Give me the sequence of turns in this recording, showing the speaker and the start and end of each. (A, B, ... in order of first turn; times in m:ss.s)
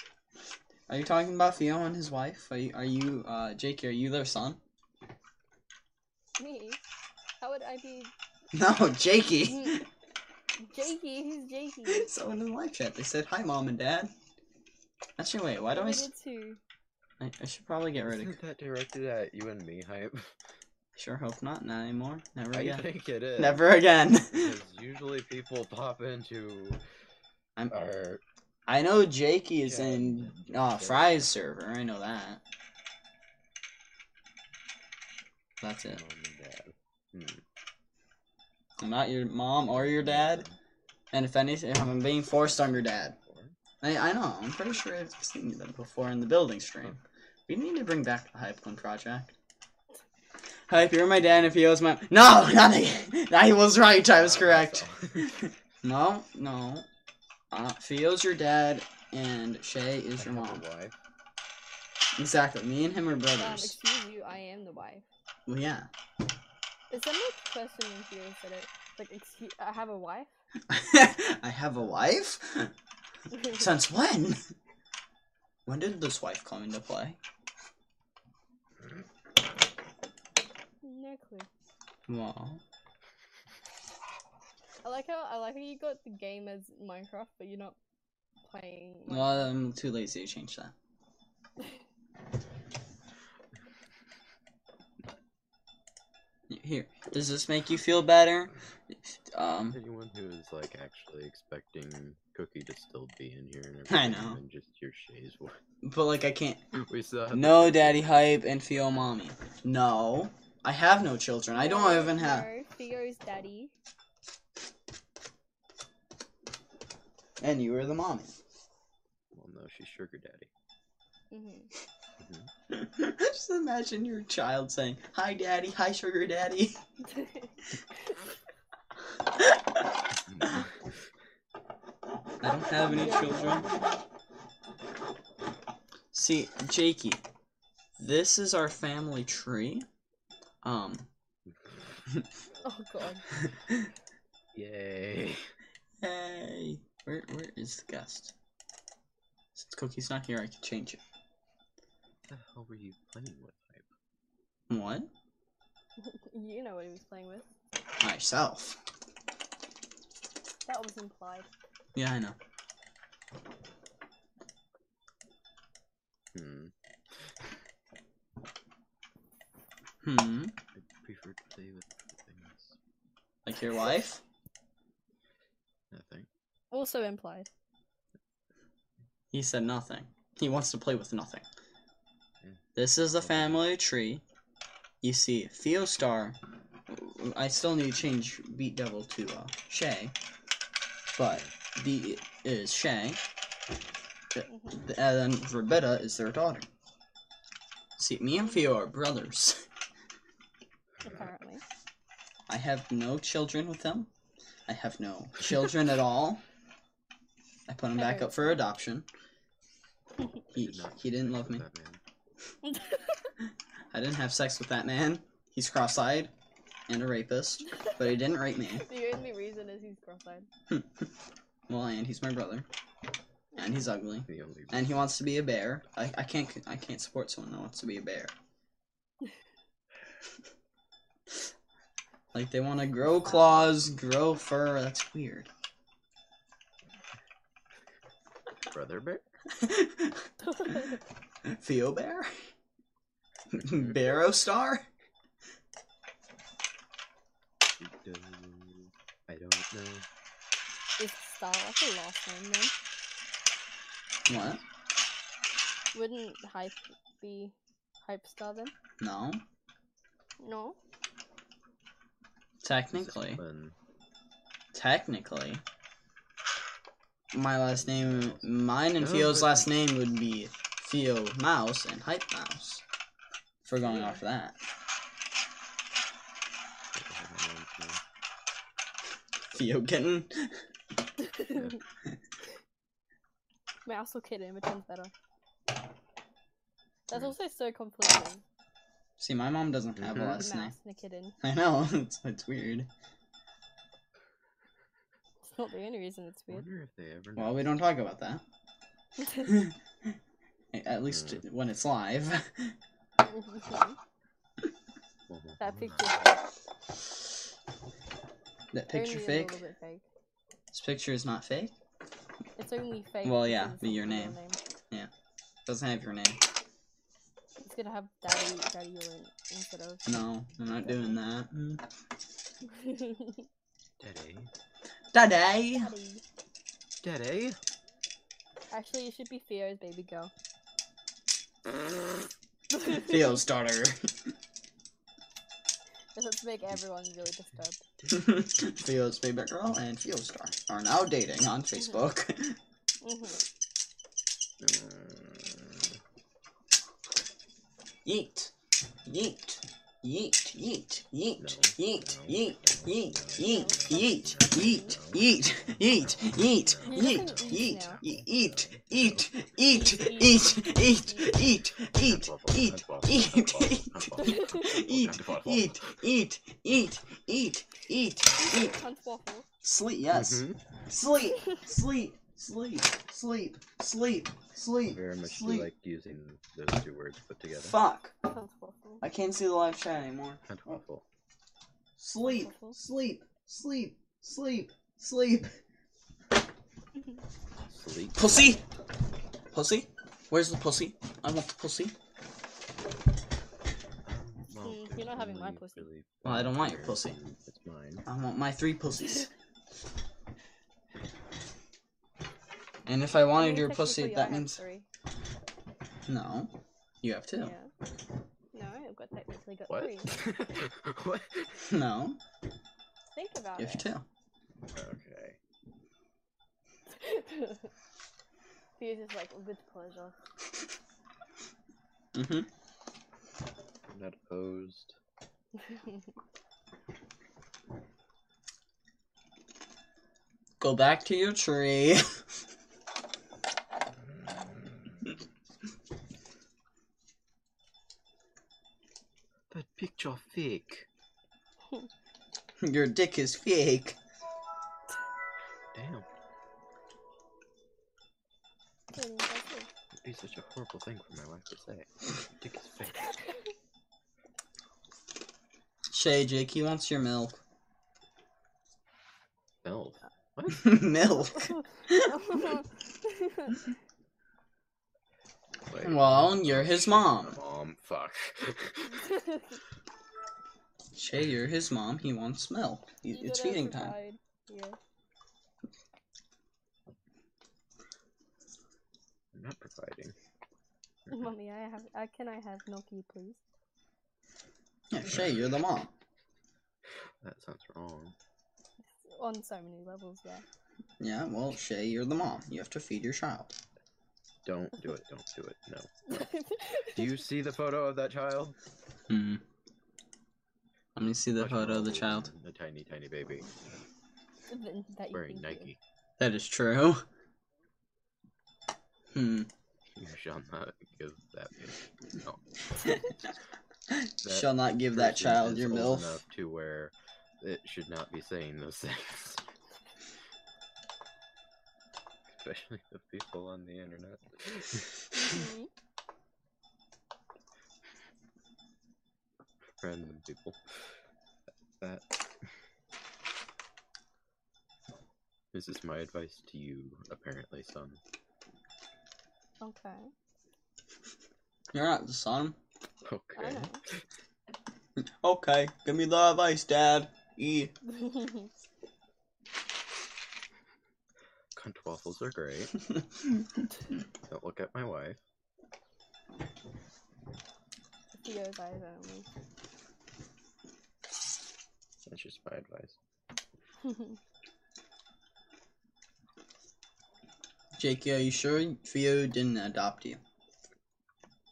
0:00.9-0:04.6 A
0:06.4-0:06.8 B
0:07.4-0:08.1 B
0:08.5-0:09.8 A
0:09.4-0:09.8 B
0:10.6-0:12.1 B
0:11.9-0:14.1 A
0:15.2-0:16.1 A
0:15.6-0:16.6 B
0:17.2-0:18.4 A
0:18.0-0:20.4 C
0:21.0-0:24.5 A
0:22.5-0:23.7 C
0:24.3-0:26.8 C
0:27.7-0:28.2 C
0:28.7-0:32.4 A
0:29.6-0:31.2 C
0:35.6-0:36.0 A
0:35.8-0:37.4 C
0:38.8-0:40.5 A
0:39.7-0:40.6 C
0:41.1-0:43.2 A
0:42.4-0:43.6 C
0:43.8-0:49.3 A
0:50.7-0:56.9 A
0:54.2-0:55.5 C
0:57.5-1:00.6 A
1:00.2-1:01.0 C
1:02.2-1:03.8 A
1:03.4-1:05.1 B
1:05.5-1:05.9 A
1:06.9-1:10.3 B
1:10.7-1:12.7 A
1:13.4-1:13.6 B
1:13.4-1:14.5 A
1:15.7-1:17.2 A
1:20.8-1:21.5 B
1:22.1-1:22.6 A
1:24.8-1:27.8 B
1:28.5-1:29.5 B
1:29.1-1:30.7 A
1:36.5-1:39.8 A
1:39.7-1:45.6 C
1:43.9-1:44.4 A
1:45.8-1:46.6 A
1:46.8-1:48.2 C
1:47.3-1:52.5 A
1:51.5-1:53.7 B
1:57.4-1:58.3 A
1:59.3-2:00.5 C
2:01.3-2:01.7 B
2:02.2-2:02.5 C
2:02.7-2:06.8 A
2:07.1-2:07.5 B
2:10.1-2:10.8 C
2:12.4-2:13.7 A
2:12.8-2:14.0 B
2:16.1-2:17.2 A
2:18.0-2:19.8 A
2:20.6-2:21.1 A
2:22.6-2:23.4 B
2:23.5-2:23.9 A
2:24.5-2:25.5 C
2:26.0-2:28.3 A
2:29.6-2:31.0 A
2:32.3-2:33.9 C
2:34.7-2:35.1 A
2:36.0-2:37.5 B
2:38.0-2:38.8 A
2:40.7-2:41.5 B
2:42.0-2:42.4 A
2:46.3-2:47.3 C
2:50.0-2:50.6 A
2:50.8-2:52.8 C
2:53.5-2:54.2 A
2:55.9-2:56.3 C
2:56.7-2:57.5 B
2:59.3-3:01.4 A
3:02.8-3:04.2 A
3:03.2-3:03.6 C
3:05.0-3:06.4 A
3:06.9-3:10.1 A
3:11.1-3:13.2 A
3:14.3-3:16.7 A
3:14.5-3:14.9 B
3:18.0-3:19.6 A
3:18.4-3:18.7 B
3:21.0-3:21.3 C
3:21.0-3:21.6 B
3:22.5-3:24.1 A
3:24.7-3:26.4 A
3:27.7-3:29.1 A
3:28.0-3:28.6 B
3:30.5-3:31.6 A
3:30.6-3:32.0 C
3:32.6-3:33.3 B
3:33.9-3:36.3 A
3:36.9-3:38.9 A
3:37.8-3:38.2 B
3:38.7-3:40.5 B
3:40.7-3:41.1 A
3:41.7-3:42.7 A
3:43.6-3:48.3 A
3:44.3-3:45.0 C
3:52.3-3:55.5 A
3:53.3-3:53.6 B
3:58.7-3:59.3 C
3:59.6-4:00.3 A
4:00.4-4:01.0 B
4:01.5-4:02.3 A
4:03.5-4:04.8 A
4:03.6-4:04.0 C
4:07.8-4:10.1 C
4:11.0-4:12.7 B
4:14.3-4:14.6 A
4:14.3-4:14.6 C
4:15.9-4:18.7 B
4:19.0-4:19.4 A
4:20.4-4:20.8 B
4:22.6-4:23.4 A
4:22.9-4:23.8 C
4:24.7-4:25.6 A
4:27.3-4:32.8 A
4:27.8-4:29.7 C
4:33.6-4:34.6 A
4:33.8-4:34.2 C
4:36.9-4:38.0 C
4:39.5-4:40.6 A
4:41.2-4:41.8 B
4:41.4-4:41.8 C
4:43.9-4:45.1 B
4:47.1-4:48.4 B
4:49.2-4:50.7 A
4:50.0-4:50.5 C
4:50.4-4:51.4 B
4:51.4-4:52.9 A
4:55.5-4:56.7 B
4:56.5-4:57.7 C
4:57.4-4:58.4 A
4:59.4-4:59.7 A
5:00.7-5:02.7 A
5:01.1-5:01.4 C
5:03.2-5:04.0 B
5:05.3-5:06.2 C
5:05.6-5:06.4 B
5:08.7-5:09.6 A
5:08.9-5:10.0 B
5:10.7-5:11.7 A
5:12.6-5:14.6 B
5:13.2-5:14.4 A
5:15.7-5:16.4 A
5:17.6-5:20.2 B
5:20.1-5:21.8 A
5:22.7-5:23.5 B
5:24.0-5:24.5 C
5:25.1-5:25.9 A
5:25.7-5:26.2 B
5:27.0-5:27.6 C
5:28.7-5:30.3 B
5:32.7-5:33.4 B
5:32.8-5:34.1 A
5:36.2-5:37.8 B
5:38.1-5:42.6 A
5:41.8-5:42.1 B
5:43.0-5:43.4 B
5:44.6-5:45.9 C
5:48.0-5:48.5 A
5:49.1-6:08.8 A
5:51.4-5:59.3 C
5:53.4-5:55.0 B
5:56.8-5:58.0 B
5:59.7-6:01.4 B
6:01.9-6:06.0 C
6:04.2-6:04.7 B
6:08.3-6:09.5 B
6:09.6-6:15.7 A
6:10.1-6:10.6 C
6:14.9-6:17.8 C
6:17.6-6:18.1 A
6:18.2-6:19.0 B
6:19.0-6:20.8 A
6:20.5-6:21.0 C
6:22.0-6:25.5 A
6:22.2-6:22.8 B
6:27.7-6:28.6 C
6:28.2-6:28.6 A
6:29.5-6:31.9 A
6:34.0-6:38.1 C
6:34.6-6:35.9 B
6:36.2-6:37.2 A
6:38.1-6:39.3 A
6:42.9-6:44.6 A
6:43.3-6:44.9 B
6:46.1-6:47.5 A
6:47.4-6:47.7 B
6:48.5-6:50.2 B
6:49.7-6:51.6 C
6:51.7-6:52.2 A
6:53.2-6:53.9 B
6:53.6-6:54.0 A
6:54.7-6:55.4 C
6:56.9-6:57.7 B
6:58.8-7:00.2 B
7:02.2-7:02.5 A
7:03.9-7:05.0 C
7:05.6-7:06.0 B
7:10.6-7:12.2 A
7:19.5-7:20.9 C
7:22.6-7:24.0 A
7:25.7-7:26.1 C
7:28.9-7:29.7 B
7:30.0-7:33.2 C
7:35.9-7:37.4 A
7:39.6-7:40.9 C
7:40.5-7:42.2 A
7:41.4-7:43.6 B
7:45.7-7:49.0 C
7:45.8-7:47.4 A
7:49.0-7:49.6 B
7:50.9-7:54.0 A
7:53.1-7:54.8 B
7:59.3-8:00.2 C
8:01.1-8:01.3 C
8:01.1-8:03.4 B
8:04.9-8:05.9 A
8:05.1-8:05.4 C
8:07.2-8:08.2 C
8:09.0-8:10.4 B
8:11.0-8:13.5 A
8:14.4-8:18.6 C
8:16.1-8:17.1 B
8:19.1-8:19.4 A
8:21.0-8:22.3 A
8:21.4-8:23.5 C
8:24.5-8:25.7 B
8:25.1-8:25.8 C
8:26.2-8:27.0 A
8:29.1-8:29.5 A
8:30.0-8:32.6 C
8:33.9-8:36.2 A
8:34.2-8:39.5 C
8:42.3-8:45.3 C
8:45.2-8:45.7 B
8:49.8-8:50.6 C
8:51.8-8:52.5 C
8:55.5-8:58.0 C
8:59.6-9:00.1 B
9:01.7-9:02.6 A
9:03.0-9:03.7 C
9:03.4-9:03.8 B
9:05.2-9:07.7 A
9:07.9-9:08.5 B
9:11.5-9:12.8 C
9:14.3-9:15.2 C
9:18.2-9:19.3 B
9:22.0-9:23.0 C
9:23.8-9:24.2 B
9:27.8-9:30.2 A